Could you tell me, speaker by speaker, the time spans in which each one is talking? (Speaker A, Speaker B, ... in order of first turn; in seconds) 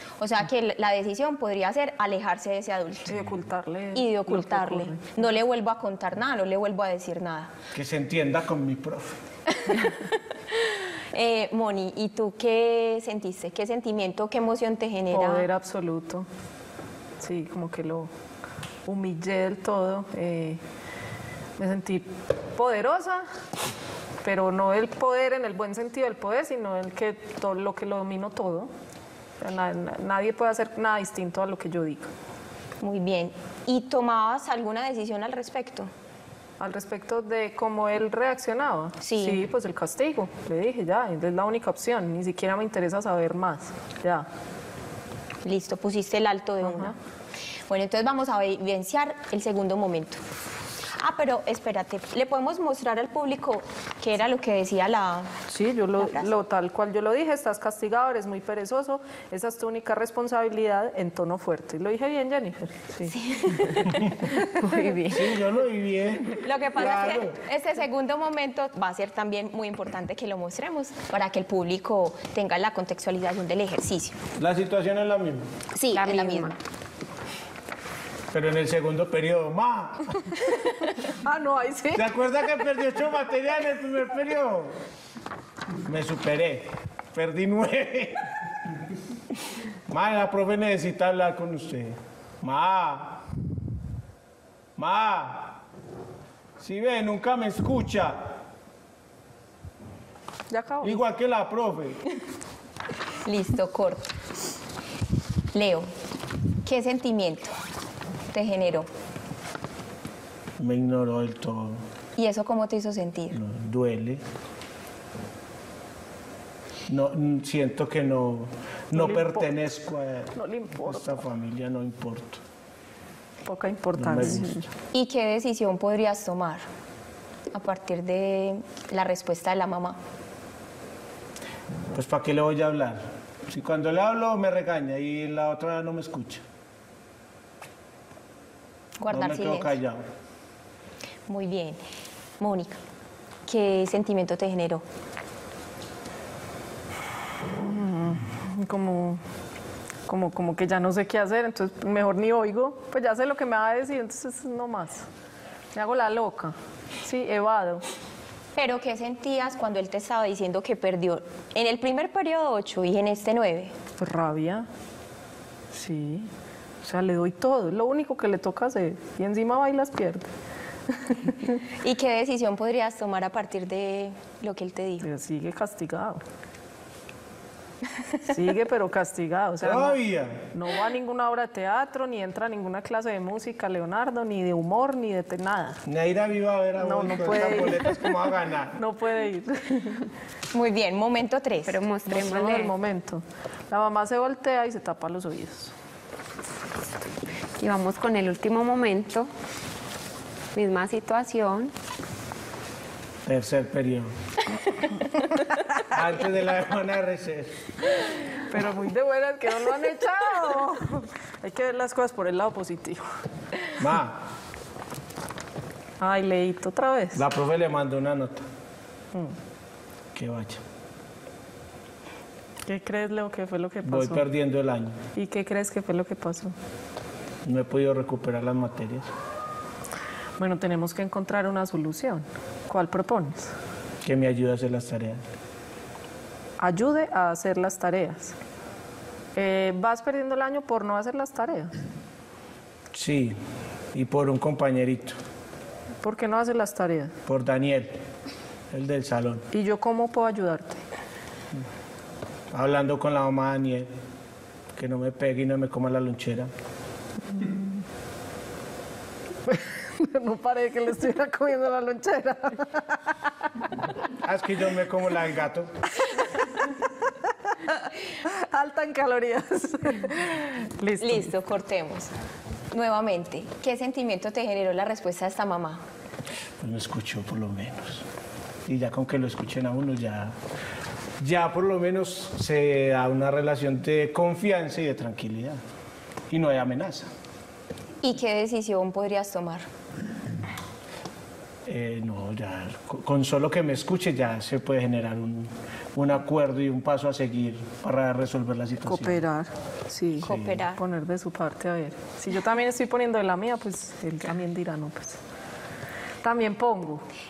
Speaker A: 0.2-3.1, 3.9-7.5, 9.6-15.5, 32.8-35.9, 39.0-39.4, 45.4-47.0, 47.7-50.2, 51.0-55.3, 56.0-56.3, 63.1-64.0, 66.4-74.2, 75.7-76.6, 103.2-104.1, 105.5-105.9, 106.6-107.5, 108.3-108.9, 112.2-113.3, 124.9-126.6, 127.5-130.0, 139.0-139.7, 141.3-141.8, 142.4-142.8, 143.5-144.8, 158.6-163.8, 171.8-175.1, 190.5-191.8, 271.0-272.1, 272.7-275.8, 288.0-289.7, 300.2-300.8
Speaker B: 3.1-5.3, 15.1-16.3, 17.2-18.1, 18.8-20.6, 21.6-23.2, 24.2-28.7, 29.4-32.1, 36.6-44.2, 46.6-46.9, 55.5-63.7, 64.3-65.3, 81.1-82.1, 100.5-101.0, 118.9-119.5, 120.3-121.2, 123.5-124.7, 147.5-149.2, 150.1-155.1, 155.7-157.8, 164.0-164.7, 165.7-166.3, 166.8-170.3, 175.0-176.2, 178.3-180.0, 180.5-185.8, 186.8-188.1, 188.8-190.1, 192.1-195.7, 208.5-213.1, 216.0-217.2, 222.7-224.2, 225.1-226.5, 230.4-233.5, 236.6-238.3, 239.3-241.7, 246.0-247.1, 249.5-250.8, 259.5-263.1, 267.7-271.3, 298.9-305.2, 306.2-307.0
Speaker C: 7.7-9.2, 65.1-67.4, 74.4-75.4, 78.3-80.2, 81.9-84.7, 85.8-88.3, 89.9-93.2, 94.8-95.6, 96.6-98.3, 100.8-102.0, 110.6-111.8, 113.3-114.2, 116.9-122.4, 124.0-124.6, 131.9-136.4, 139.1-140.0, 179.6-180.5, 185.8-188.8, 203.2-204.1, 205.9-207.6, 213.8-214.2, 217.1-218.4, 220.1-220.6, 223.8-225.0, 227.4-229.1, 234.0-235.2, 242.9-243.4, 243.9-245.2, 247.2-248.0, 248.7-249.4, 252.5-253.9, 254.8-256.5, 264.2-265.7, 276.6-278.0, 278.7-280.3, 281.2-285.6, 286.3-287.1, 291.7-299.2, 300.2-300.6
Speaker D: 75.9-76.5, 191.7-192.7, 197.6-199.3, 200.5-201.7